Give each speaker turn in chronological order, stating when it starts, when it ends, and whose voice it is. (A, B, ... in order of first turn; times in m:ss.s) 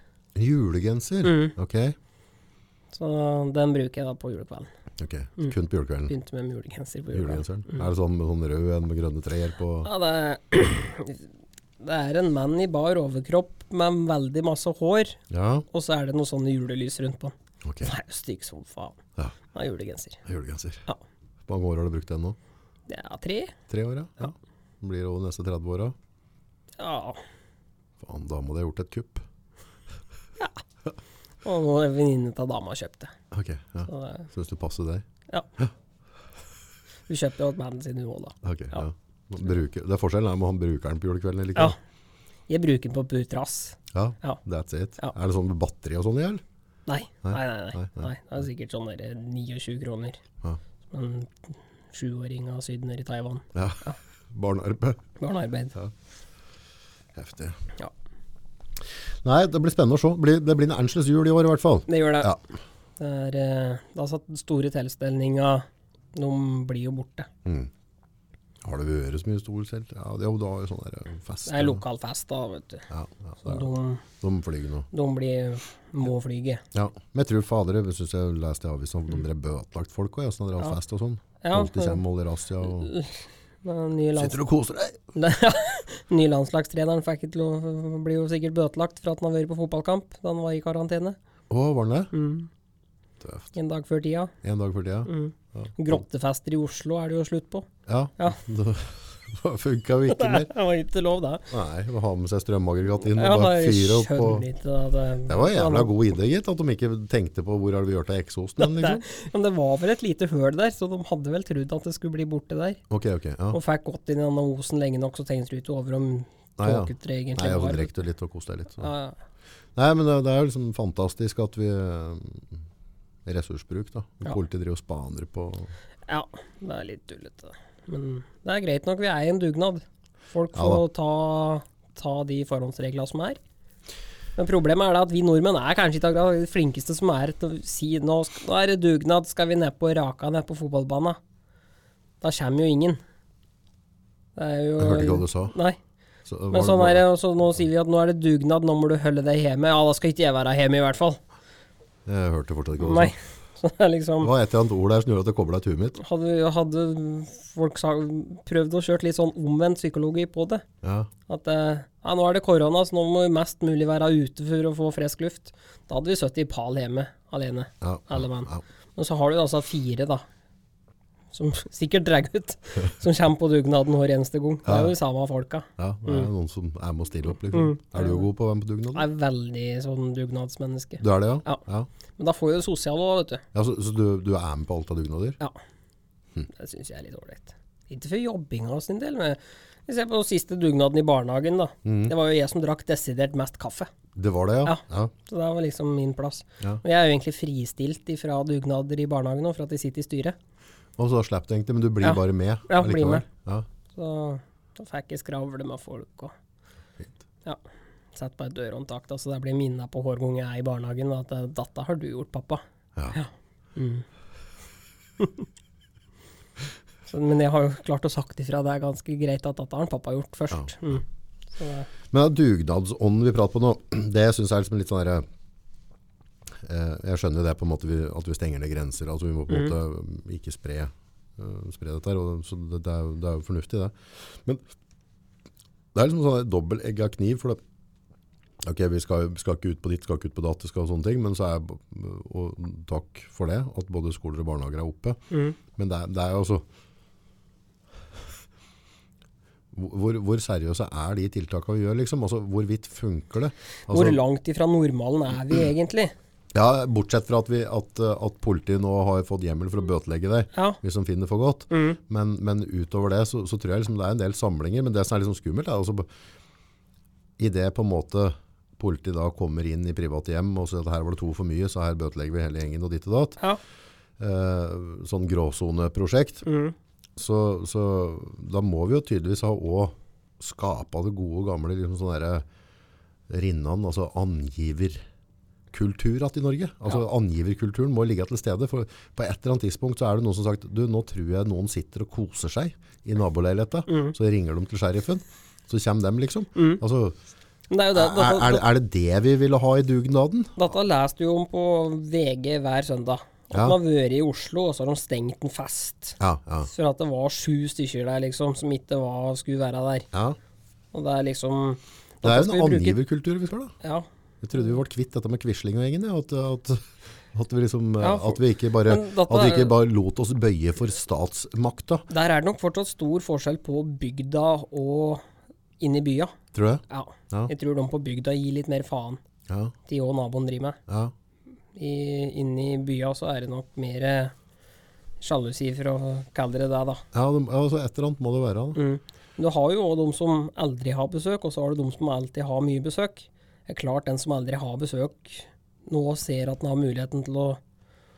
0:00.4-0:02.0 A
0:01.2-0:01.5 B
0:02.9-0:04.7 B
0:05.0-0:06.1 A
0:06.1-0:07.9 B
0:07.1-0:09.9 A
0:09.8-0:11.3 B
0:11.8-0:15.2 B
0:15.3-0:15.6 A
0:15.7-0:19.0 B
0:17.6-0:17.9 A
0:19.5-0:20.2 B
0:20.2-0:20.9 A
0:21.5-0:22.4 A
0:22.9-0:23.5 B
0:23.7-0:25.9 A
0:26.8-0:27.2 B
0:28.0-0:29.2 A
0:31.4-0:33.1 B
0:33.3-0:35.0 A
0:33.9-0:34.3 B
0:37.1-0:38.8 B
0:38.4-0:41.8 A
0:42.5-0:44.4 B
0:43.9-0:46.4 A
0:46.9-0:50.2 B
0:47.2-0:48.1 A
0:50.9-0:54.0 B
0:53.5-0:55.0 A
0:55.2-0:55.7 B
0:57.1-0:57.6 A
0:59.2-1:02.4 A
1:01.9-1:02.3 B
1:03.0-1:07.3 B
1:07.4-1:07.7 A
1:08.6-1:11.8 A
1:11.5-1:12.8 B
1:12.9-1:14.9 A
1:13.4-1:14.0 B
1:14.9-1:16.6 B
1:16.7-1:22.9 A
1:21.4-1:22.0 B
1:22.6-1:24.4 B
1:24.2-1:25.1 A
1:25.1-1:31.2 B
1:31.5-1:32.1 A
1:32.1-1:32.5 B
1:33.2-1:33.5 A
1:33.5-1:34.3 B
1:34.4-1:36.0 A
1:35.0-1:38.4 B
1:37.9-1:40.5 A
1:40.1-1:41.5 B
1:41.5-1:44.4 A
1:43.1-1:45.9 B
1:45.3-1:49.0 A
1:48.6-1:52.8 B
1:52.9-1:53.6 A
1:53.5-1:57.9 B
1:56.6-1:58.9 A
1:58.8-1:59.2 B
1:59.8-2:02.6 A
2:03.2-2:05.7 A
2:06.1-2:13.4 B
2:10.5-2:10.8 A
2:14.4-2:21.2 B
2:22.2-2:23.0 B
2:24.4-2:25.8 B
2:24.8-2:25.5 A
2:26.3-2:27.0 A
2:26.5-2:31.2 B
2:32.0-2:33.1 A
2:32.8-2:34.3 B
2:34.2-2:36.0 A
2:36.0-2:40.6 B
2:40.8-2:41.1 A
2:41.3-2:50.2 B
2:47.8-2:48.6 A
2:51.3-2:56.3 B
2:54.6-2:54.9 A
2:55.8-2:59.1 A
2:57.5-2:58.3 B
2:58.9-3:01.6 B
3:01.0-3:01.9 A
3:02.2-3:03.4 B
3:03.5-3:05.4 A
3:06.5-3:13.9 B
3:11.8-3:12.1 A
3:14.2-3:15.1 A
3:14.6-3:20.4 B
3:21.0-3:23.6 A
3:22.0-3:23.2 B
3:23.9-3:26.3 B
3:28.1-3:34.0 B
3:35.2-3:35.4 B
3:37.1-3:41.9 B
3:42.1-3:45.2 A
3:46.6-3:54.6 A
3:49.5-3:49.7 B
3:55.9-3:57.6 A
3:58.6-4:05.2 A
4:05.3-4:05.6 B
4:05.7-4:06.6 A
4:09.7-4:14.2 A
4:13.9-4:16.1 B
4:16.5-4:26.1 A
4:20.5-4:20.8 B
4:21.7-4:22.0 B
4:27.4-4:33.4 A
4:34.2-4:36.4 A
4:36.4-4:36.7 B
4:37.2-4:42.4 A
4:43.3-4:45.0 A
4:45.7-4:57.2 A
4:53.9-4:54.1 B
4:56.6-4:56.8 B
4:57.7-4:58.6 B
4:57.9-5:00.5 A
5:00.6-5:10.1 B
5:03.5-5:03.8 A
5:06.2-5:06.7 A
5:10.9-5:13.0 B
5:12.2-5:13.7 A
5:13.8-5:14.1 B
5:14.4-5:22.1 A
5:18.0-5:19.8 B
5:22.1-5:25.2 B
5:25.8-5:26.3 B
5:26.5-5:27.5 A
5:26.9-5:29.2 B
5:29.5-5:29.7 A
5:29.9-5:30.8 B
5:30.9-5:31.1 A
5:31.7-5:34.3 B
5:35.2-5:37.0 B
5:37.1-5:38.8 A
5:38.7-5:47.6 B